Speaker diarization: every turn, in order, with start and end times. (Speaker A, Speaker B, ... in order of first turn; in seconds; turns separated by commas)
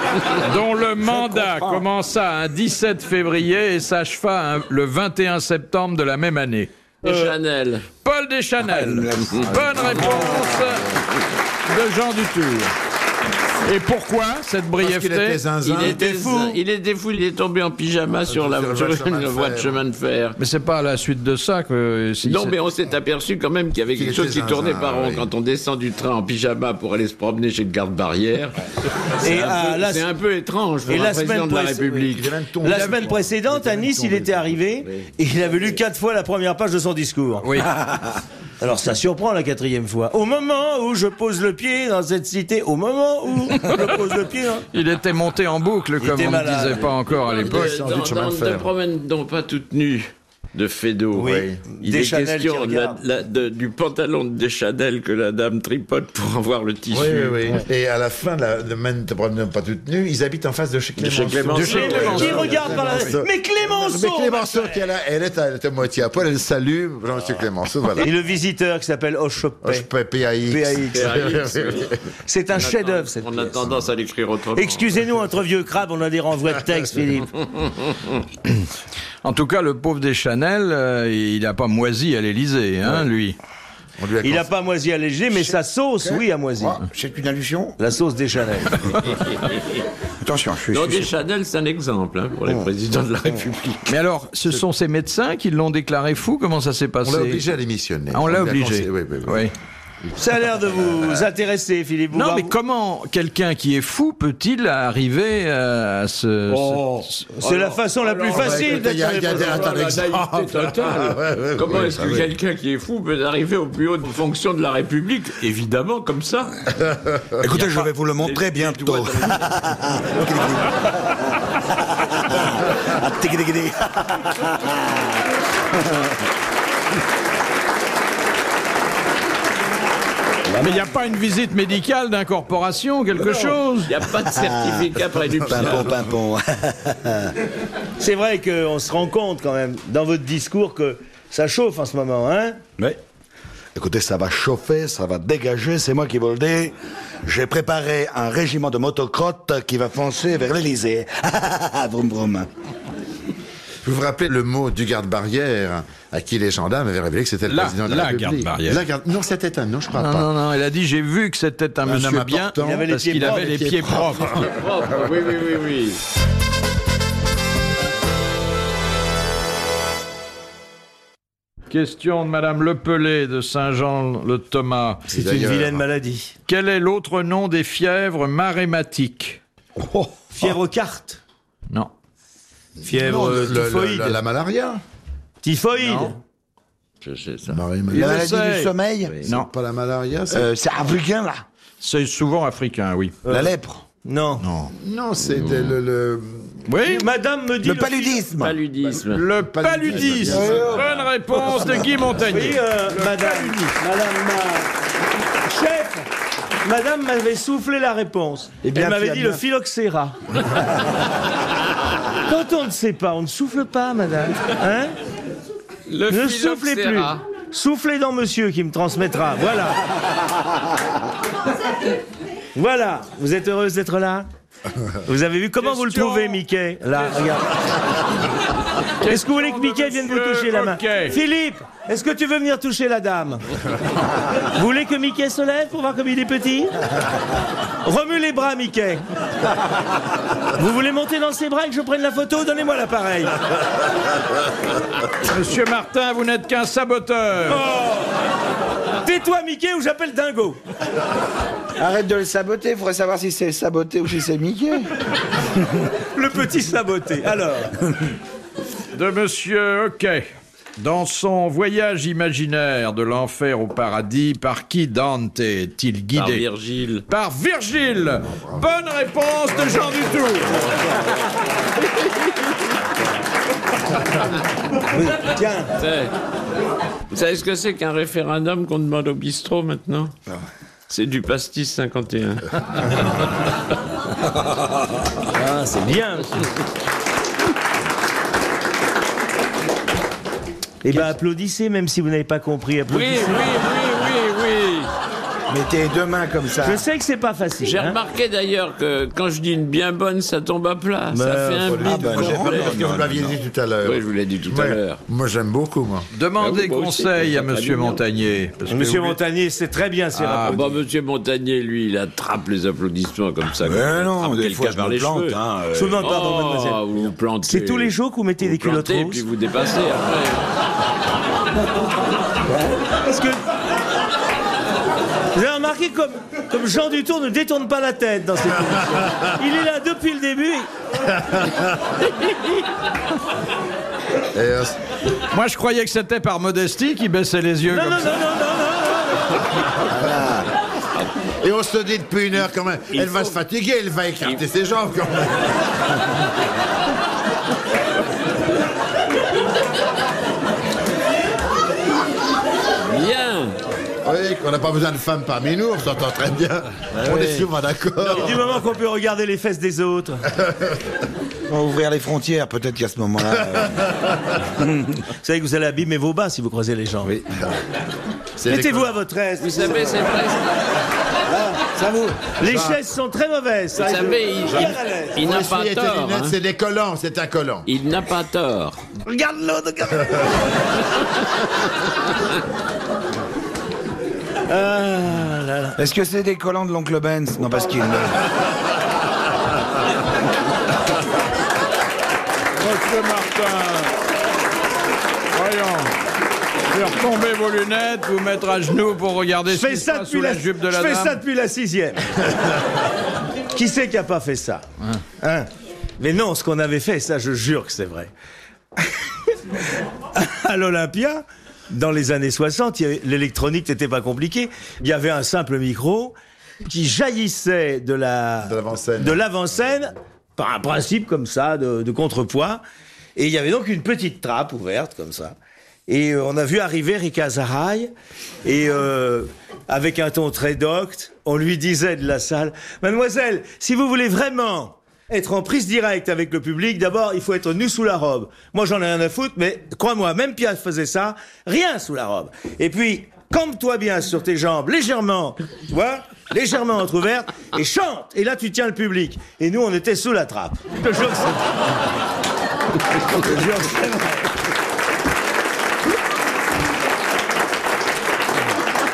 Speaker A: 0.3-6.7, Speaker B: 1.0-1.9, Speaker C: 7.0-7.9, Speaker D: 7.0-7.3, Speaker A: 8.0-11.0, Speaker B: 8.6-11.0, Speaker C: 9.3-9.9, Speaker A: 11.7-12.7, Speaker A: 13.7-15.4, Speaker E: 14.8-16.1, Speaker C: 15.6-20.4, Speaker D: 15.8-16.6, Speaker E: 18.3-19.8, Speaker A: 20.4-22.6, Speaker C: 22.2-28.6, Speaker E: 23.9-25.3, Speaker C: 29.2-32.3, Speaker D: 29.2-30.1, Speaker D: 30.9-32.1, Speaker E: 32.1-34.7, Speaker D: 32.6-37.5, Speaker A: 37.4-37.8, Speaker D: 38.6-44.7, Speaker A: 44.7-47.7, Speaker D: 46.0-46.9, Speaker C: 47.1-57.5, Speaker E: 47.4-48.7, Speaker D: 51.1-53.0, Speaker E: 51.2-51.6, Speaker E: 56.9-68.1, Speaker C: 61.0-62.8, Speaker A: 61.5-63.2, Speaker D: 61.7-64.8, Speaker D: 68.0-69.9, Speaker E: 69.6-72.0, Speaker D: 70.5-71.2, Speaker C: 70.9-72.0, Speaker D: 72.2-73.6, Speaker C: 72.5-75.0, Speaker D: 74.5-77.3, Speaker A: 79.2-83.4, Speaker E: 84.0-84.5, Speaker D: 84.2-86.8, Speaker B: 85.3-87.8, Speaker D: 87.8-89.2, Speaker B: 90.2-91.1, Speaker C: 90.7-94.0, Speaker A: 93.9-97.4, Speaker E: 97.0-99.5, Speaker A: 98.1-99.5, Speaker D: 100.2-102.6, Speaker A: 102.1-107.3, Speaker D: 107.4-109.8, Speaker C: 107.4-116.6, Speaker E: 108.3-112.3, Speaker E: 116.8-117.4, Speaker B: 117.4-125.2, Speaker C: 117.5-119.4, Speaker B: 125.8-126.1, Speaker D: 130.5-130.8, Speaker A: 130.6-133.9, Speaker C: 133.9-136.0, Speaker B: 134.3-137.3, Speaker D: 138.0-142.6, Speaker B: 143.8-146.7, Speaker B: 147.2-152.5, Speaker E: 153.8-160.3, Speaker A: 157.5-158.8, Speaker A: 159.9-164.5, Speaker E: 161.8-164.5, Speaker D: 162.6-163.8, Speaker C: 164.5-166.0, Speaker A: 171.7-175.1, Speaker E: 175.1-175.8, Speaker D: 175.1-176.3, Speaker A: 176.5-179.4, Speaker D: 180.3-181.2, Speaker D: 182.8-184.2, Speaker E: 182.9-184.8, Speaker D: 185.4-186.2, Speaker A: 185.8-186.1, Speaker C: 187.0-187.6, Speaker E: 187.5-188.2, Speaker B: 187.9-189.3, Speaker A: 187.9-188.7, Speaker E: 189.2-190.5, Speaker B: 190.3-191.4, Speaker A: 191.8-193.2, Speaker D: 193.2-194.5, Speaker B: 193.3-193.8, Speaker A: 194.4-194.7, Speaker E: 194.8-196.6, Speaker A: 196.7-197.1, Speaker D: 196.8-198.3, Speaker B: 197.6-198.6, Speaker C: 198.4-199.3, Speaker A: 199.1-203.7, Speaker E: 199.2-201.0, Speaker B: 200.3-202.0, Speaker D: 202.2-204.7, Speaker D: 205.4-206.1, Speaker D: 206.6-210.2, Speaker B: 208.6-209.4, Speaker D: 212.2-214.9, Speaker C: 215.9-217.2, Speaker D: 216.1-219.8, Speaker D: 222.6-224.3, Speaker D: 225.1-227.6, Speaker A: 225.6-226.4, Speaker A: 229.0-231.2, Speaker D: 229.1-233.4, Speaker D: 234.4-236.8, Speaker D: 237.8-239.5, Speaker D: 240.4-243.4, Speaker A: 245.1-247.6, Speaker D: 247.5-248.1, Speaker D: 249.0-250.6, Speaker B: 251.8-254.9, Speaker D: 256.1-257.8, Speaker A: 258.9-266.4, Speaker C: 266.1-267.1, Speaker A: 267.1-270.7, Speaker D: 274.8-275.7, Speaker C: 275.8-276.1, Speaker C: 277.1-280.1, Speaker C: 280.9-283.1, Speaker D: 285.3-286.5, Speaker D: 290.8-293.5, Speaker C: 292.9-294.9, Speaker B: 295.5-296.9, Speaker D: 296.6-298.0, Speaker C: 297.6-302.8, Speaker D: 301.1-301.8, Speaker E: 301.6-306.1, Speaker B: 301.8-303.3, Speaker C: 303.8-305.0, Speaker A: 306.1-309.2, Speaker C: 306.4-308.0, Speaker D: 308.7-310.7, Speaker A: 310.1-310.6, Speaker C: 310.5-315.4, Speaker B: 313.6-316.1, Speaker D: 315.7-316.8, Speaker C: 316.0-320.5, Speaker D: 317.5-319.2, Speaker D: 322.9-323.4, Speaker D: 325.3-330.7, Speaker E: 331.1-332.0, Speaker E: 334.3-334.8, Speaker A: 335.3-338.2, Speaker D: 337.7-339.5, Speaker B: 339.9-340.5, Speaker E: 341.4-345.6, Speaker C: 342.9-343.4, Speaker C: 352.8-353.6, Speaker E: 354.0-358.5, Speaker C: 357.0-357.5, Speaker C: 358.0-358.4, Speaker D: 358.1-360.3, Speaker E: 360.3-360.9, Speaker B: 361.5-363.9, Speaker E: 363.5-364.2, Speaker B: 364.4-365.1, Speaker D: 365.1-367.1, Speaker E: 368.4-369.0, Speaker D: 368.4-370.2, Speaker C: 369.4-370.7, Speaker D: 371.3-375.2, Speaker E: 372.4-372.8, Speaker C: 373.8-376.4, Speaker E: 375.2-377.7, Speaker C: 377.7-378.8, Speaker D: 379.1-380.4, Speaker D: 384.5-385.8, Speaker B: 385.8-388.3, Speaker A: 392.6-393.9, Speaker A: 395.3-395.9, Speaker A: 396.7-401.2, Speaker D: 399.5-402.5, Speaker D: 403.5-404.7, Speaker D: 405.2-408.1, Speaker D: 410.1-422.6, Speaker E: 418.4-419.2, Speaker D: 423.2-425.4, Speaker D: 425.9-427.9, Speaker D: 428.4-451.4, Speaker D: 453.1-454.3